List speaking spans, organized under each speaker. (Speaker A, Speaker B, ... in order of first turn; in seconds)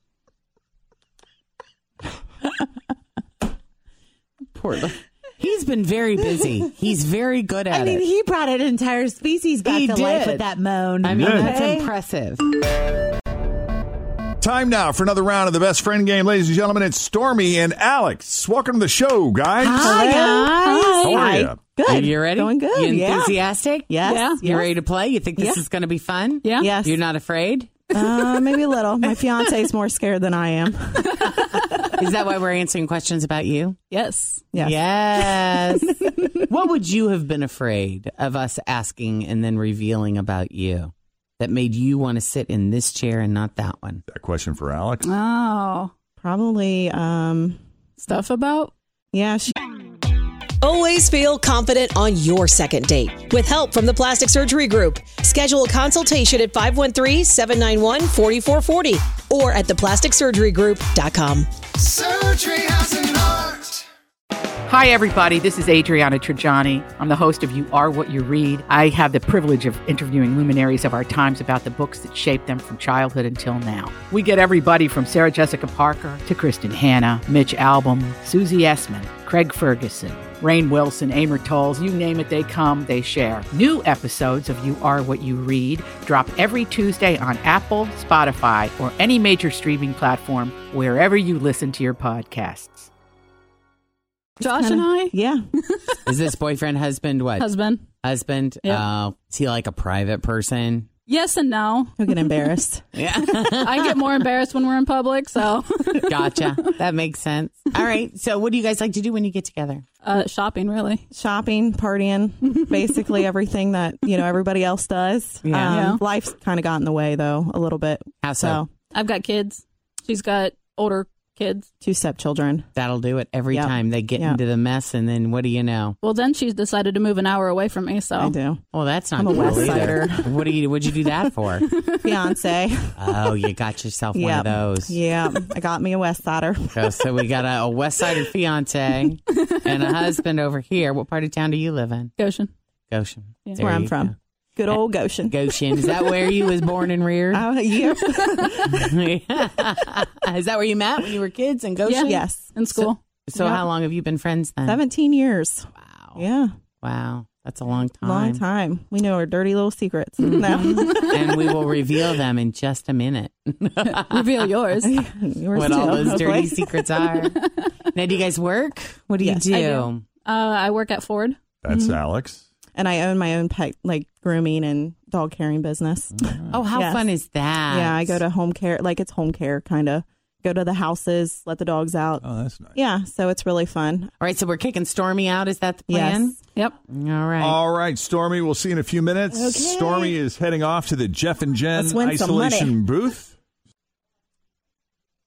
Speaker A: 4.5-8.1, 9.6-12.4, 19.6-21.1, 21.9-27.7, 32.0-33.8, 34.5-44.0, 96.0-97.5, 98.0-100.9, 103.0-104.0, 106.1-109.8, 115.4-115.9, 118.2-118.6, 122.8-126.0, 128.7-131.7, 133.0-135.0, 136.7-142.1, 142.9-144.1, 144.7-147.5, 148.6-152.2, 153.3-154.8, 155.8-156.2, 156.8-158.4, 160.2-164.5, 165.5-170.0, 176.5-178.2, 184.2-187.6
Speaker B: 7.7-11.9, 19.7-20.4
Speaker C: 11.0-11.6, 14.4-19.9, 21.0-21.6, 44.1-45.1, 171.6-172.5, 176.2-176.6, 182.2-182.8, 187.4-193.3
Speaker D: 19.7-24.8, 25.4-25.6, 26.6-27.0, 27.9-31.9, 34.5-35.3, 46.2-47.6, 49.1-49.6, 94.4-95.4, 102.0-102.8, 111.1-118.7, 121.8-122.7, 123.5-124.4, 128.2-131.1, 131.9-133.3, 134.1-137.2, 143.6-145.9, 147.3-148.8, 152.0-153.7, 154.6-156.5, 158.0-161.6, 164.8-167.1, 169.2-169.5, 172.8-177.1, 177.7-184.1, 185.9-186.4, 189.3-190.2, 191.8-192.7
Speaker E: 20.5-21.3, 24.1-24.4, 26.4-26.7, 33.9-34.5, 45.0-45.9, 48.0-48.7, 94.4-95.2, 97.4-97.9, 101.1-102.5, 103.5-106.4, 110.0-111.0, 115.7-116.0, 118.9-121.7, 126.0-128.4, 142.2-142.5, 151.8-153.0, 160.2-161.4, 163.8-165.0, 165.6-166.4, 169.5-172.0
Speaker F: 50.6-62.0
Speaker G: 64.7-92.9